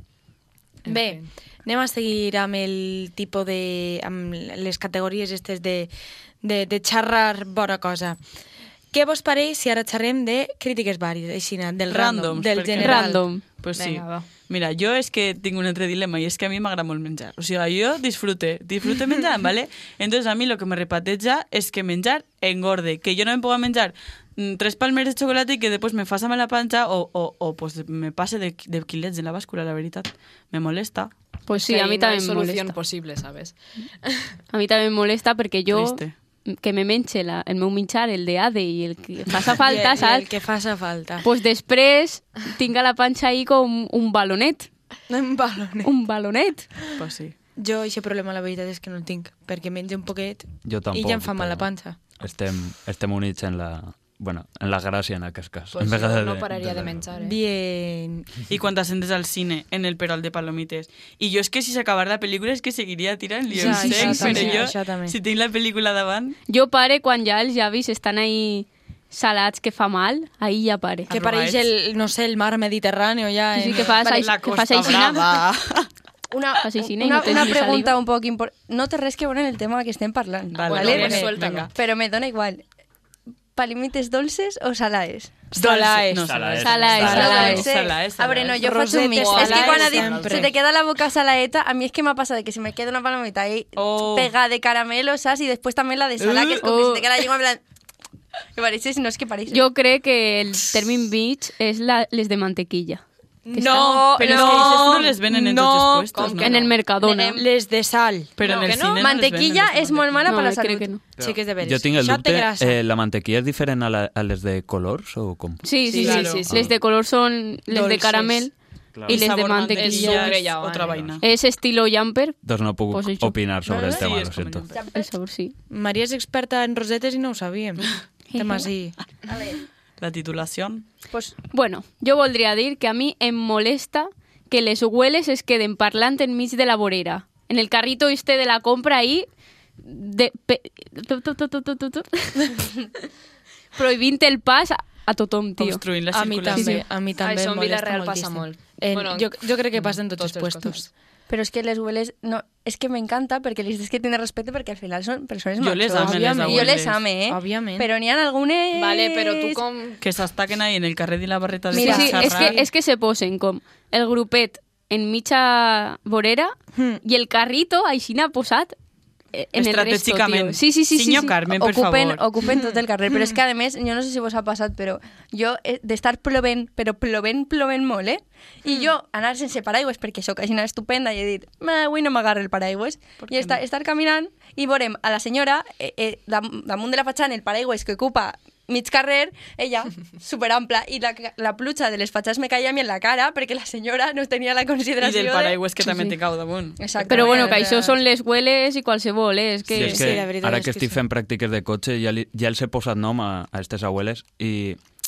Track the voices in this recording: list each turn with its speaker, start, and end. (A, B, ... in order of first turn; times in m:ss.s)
0:00.9-0:01.3 A
0:00.9-0:05.9 B
0:06.4-0:08.2 B
0:08.9-0:13.2 B
0:11.9-0:31.1 C
0:12.8-0:13.4 D
0:13.8-0:14.3 A
0:31.5-0:32.8 D
0:31.5-0:34.3 A
0:34.5-0:40.3 D
0:35.7-0:36.1 C
0:39.6-0:41.2 B
0:41.2-0:44.7 D
0:45.1-0:45.9 B
0:45.8-0:46.7 D
0:47.0-0:47.4 C
0:47.6-0:52.0 B
0:50.6-0:51.7 E
0:52.2-0:57.1 E
0:55.7-0:57.4 A
0:57.2-0:58.3 B
0:58.5-1:06.4 C
1:03.5-1:05.1 B
1:03.6-1:04.6 D
1:06.5-1:11.1 D
1:11.1-1:11.7 C
1:11.1-1:14.0 B
1:13.5-1:15.4 D
1:13.8-1:14.3 F
1:14.0-1:15.9 C
1:16.3-1:22.6 F
1:16.6-1:17.9 D
1:20.5-1:21.7 C
1:20.7-1:21.7 A
1:20.8-1:21.3 B
1:23.5-1:25.5 F
1:25.5-1:30.5 C
1:25.5-1:26.4 B
1:26.2-1:27.6 E
1:26.6-1:27.7 D
1:27.0-1:37.6 F
1:27.0-1:27.6 B
1:28.6-1:30.5 B
1:29.2-1:29.9 A
1:33.8-1:34.3 C
1:36.2-1:36.6 C
1:36.6-1:37.0 D
1:38.5-1:39.6 F
1:39.5-1:43.0 D
1:43.5-1:46.2 B
1:43.5-1:45.2 F
1:43.6-1:43.9 D
1:44.1-1:46.6 C
1:46.1-1:46.7 A
1:46.4-1:47.4 D
1:47.0-1:47.4 F
1:47.4-1:48.4 B
1:48.4-1:50.4 C
1:48.4-1:49.1 A
1:48.5-1:50.9 F
1:50.3-1:51.0 D
1:51.2-1:55.8 E
1:51.2-1:52.8 B
1:55.6-1:58.5 D
1:55.9-1:56.7 A
1:55.9-1:56.5 C
1:57.7-1:58.4 B
1:58.9-1:59.3 E
1:59.1-2:00.4 D
1:59.1-2:01.2 C
1:59.8-2:01.0 A
2:00.9-2:01.2 E
2:01.2-2:02.4 D
2:02.4-2:04.7 E
2:02.9-2:03.4 D
2:03.7-2:04.1 F
2:03.7-2:04.8 C
2:04.7-2:05.1 F
2:04.9-2:05.5 D
2:05.7-2:09.0 B
2:08.3-2:08.7 D
2:09.3-2:09.6 F
2:10.0-2:10.8 C
2:11.1-2:11.4 F
2:11.5-2:19.3 D
2:19.8-2:22.7 D
2:23.8-2:25.8 D
2:25.6-2:26.8 C
2:26.1-2:30.9 B
2:26.5-2:26.8 D
2:27.2-2:30.8 A
2:31.3-2:39.6 F
2:35.6-2:37.0 C
2:36.0-2:37.9 B
2:38.8-2:40.0 A
2:40.0-2:42.6 C
2:41.7-2:42.5 F
2:41.8-2:48.8 D
2:41.8-2:42.6 B
2:46.8-2:47.0 B
2:49.3-2:51.4 D
2:49.5-2:52.2 C
2:51.5-3:15.6 F
2:52.5-2:52.8 B
3:03.2-3:03.6 C
3:15.0-3:17.4 C
3:15.8-3:16.1 D
3:16.8-3:18.0 F
3:17.1-3:20.1 D
3:17.2-3:17.6 B
3:19.7-3:24.8 E
3:19.8-3:20.2 C
3:19.8-3:21.0 B